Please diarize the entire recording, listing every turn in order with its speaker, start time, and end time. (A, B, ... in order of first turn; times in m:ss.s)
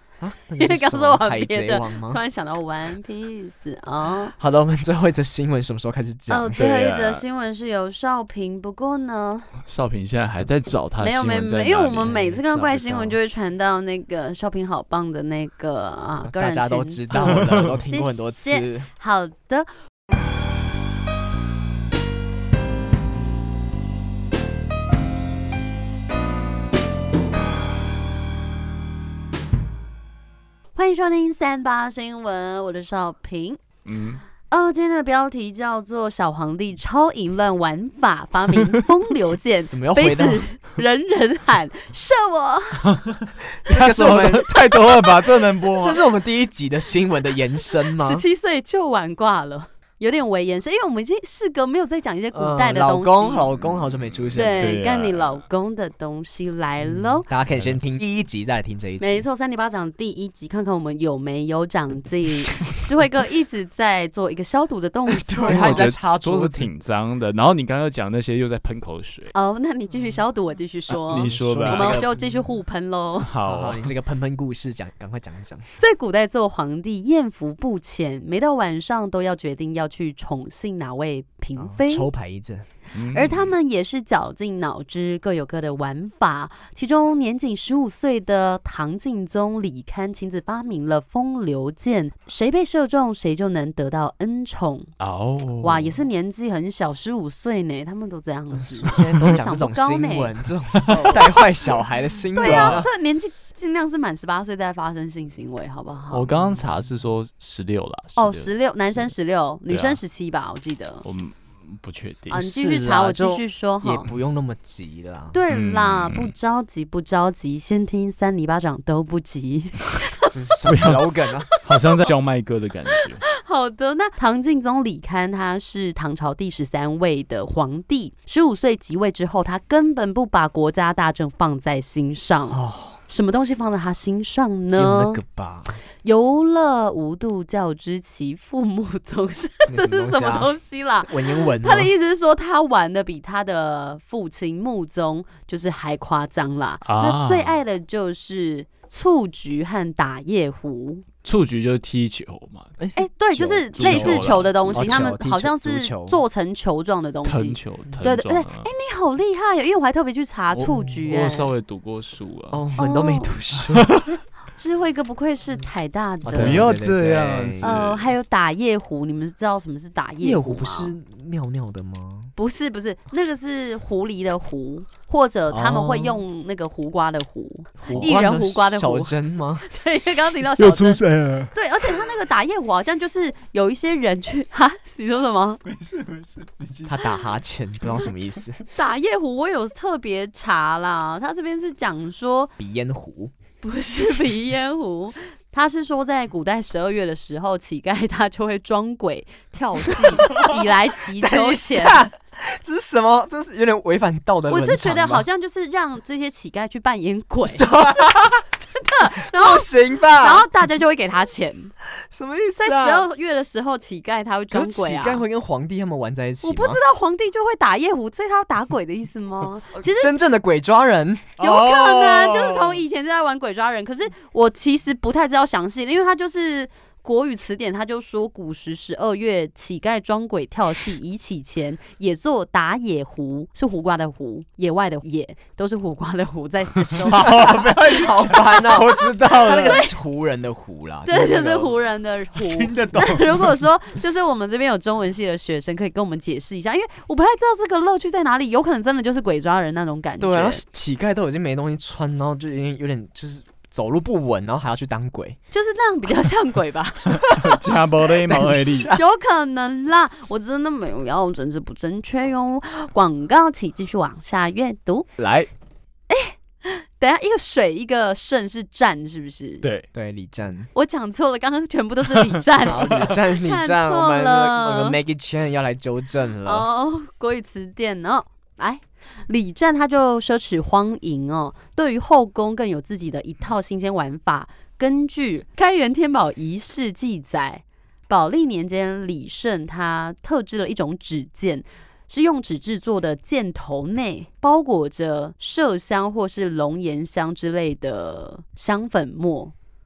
0:00.2-0:02.2 A
0:00.6-0:04.4 B
0:04.4-0:06.5 A
0:06.3-0:09.5 B
0:06.6-0:07.2 C
0:09.7-0:12.2 C
0:11.0-0:19.7 B
0:12.0-0:13.2 A
0:16.2-0:18.9 A
0:17.2-0:17.7 C
0:30.8-0:33.6 B
0:33.9-0:34.2 C
0:34.5-0:42.9 B
0:39.7-0:40.5 A
0:42.8-0:46.0 C
0:43.7-0:48.2 A
0:47.9-0:53.5 B
0:52.3-0:54.8 A
0:54.2-0:55.4 C
0:54.4-0:57.3 B
0:57.3-0:59.2 A
0:57.5-0:57.8 C
0:59.0-1:05.9 B
1:05.1-1:06.7 A
1:05.4-1:09.3 C
1:09.3-1:13.3 B
1:11.1-1:12.1 C
1:11.1-1:12.2 A
1:13.2-1:13.9 C
1:13.4-1:15.6 A
1:15.8-1:22.1 B
1:21.6-1:22.7 A
1:22.9-1:23.6 C
1:23.1-1:34.9 B
1:35.0-1:36.0 C
1:35.6-1:40.3 B
1:38.6-1:42.9 A
1:38.8-1:39.4 C
1:40.7-1:41.2 C
1:40.9-1:41.4 B
1:42.3-1:46.3 B
1:42.4-1:42.9 C
1:46.1-1:48.5 C
1:48.2-1:51.0 B
1:49.7-1:50.0 C
1:51.0-1:52.5 C
1:52.3-1:54.1 B
1:52.3-1:55.4 A
1:55.3-2:00.3 B
1:55.5-1:56.3 C
2:00.3-2:01.5 A
2:00.7-2:01.0 C
2:01.5-2:01.8 B
2:01.6-2:03.2 C
2:03.2-2:15.2 B
2:12.5-2:13.0 A
2:14.7-2:15.8 A
2:16.0-2:31.0 B
2:19.7-2:20.5 A
2:21.0-2:21.9 A
2:26.8-2:27.6 C
2:31.2-2:32.7 C
2:32.8-2:36.2 A
2:33.0-2:41.5 B
2:33.7-2:35.1 C
2:37.2-2:38.7 C
2:40.5-2:42.6 C
2:42.5-2:43.9 A
2:42.8-2:43.4 B
2:43.7-2:44.2 C
2:44.6-2:46.6 B
2:46.2-2:47.8 A
2:46.3-2:48.1 C
2:47.6-2:51.0 B
2:50.2-2:52.3 A
2:52.4-3:05.6 B
2:55.5-2:56.2 A
2:57.8-2:59.7 A
3:00.6-3:01.5 C
3:05.7-3:07.0 C
3:06.9-3:08.6 A
3:08.7-3:12.5 B
3:12.6-3:13.3 A
3:13.6-3:22.0 B
3:20.0-3:20.4 A
3:21.2-3:25.2 A
3:24.5-3:27.7 B
3:27.5-3:28.5 A
3:28.6-3:31.7 B
3:29.2-3:30.5 A
3:32.0-3:33.1 A
3:32.6-3:35.2 B
3:34.5-3:36.8 A
3:36.4-3:40.1 B
3:39.7-3:41.4 A
3:41.4-3:59.9 B
3:41.4-3:42.8 C
3:57.0-3:59.9 C
3:57.2-4:01.8 A
4:01.1-4:10.6 B
4:02.4-4:03.6 C
4:10.2-4:15.4 A
4:15.5-4:17.5 B
4:17.1-4:18.9 C
4:18.2-4:19.0 A
4:18.8-4:25.1 B
4:25.2-4:25.5 C
4:26.1-4:29.7 B
4:29.6-4:29.9 C
4:29.9-4:30.7 A
4:30.7-4:35.0 B
4:32.6-4:36.7 A
4:36.4-4:59.5 B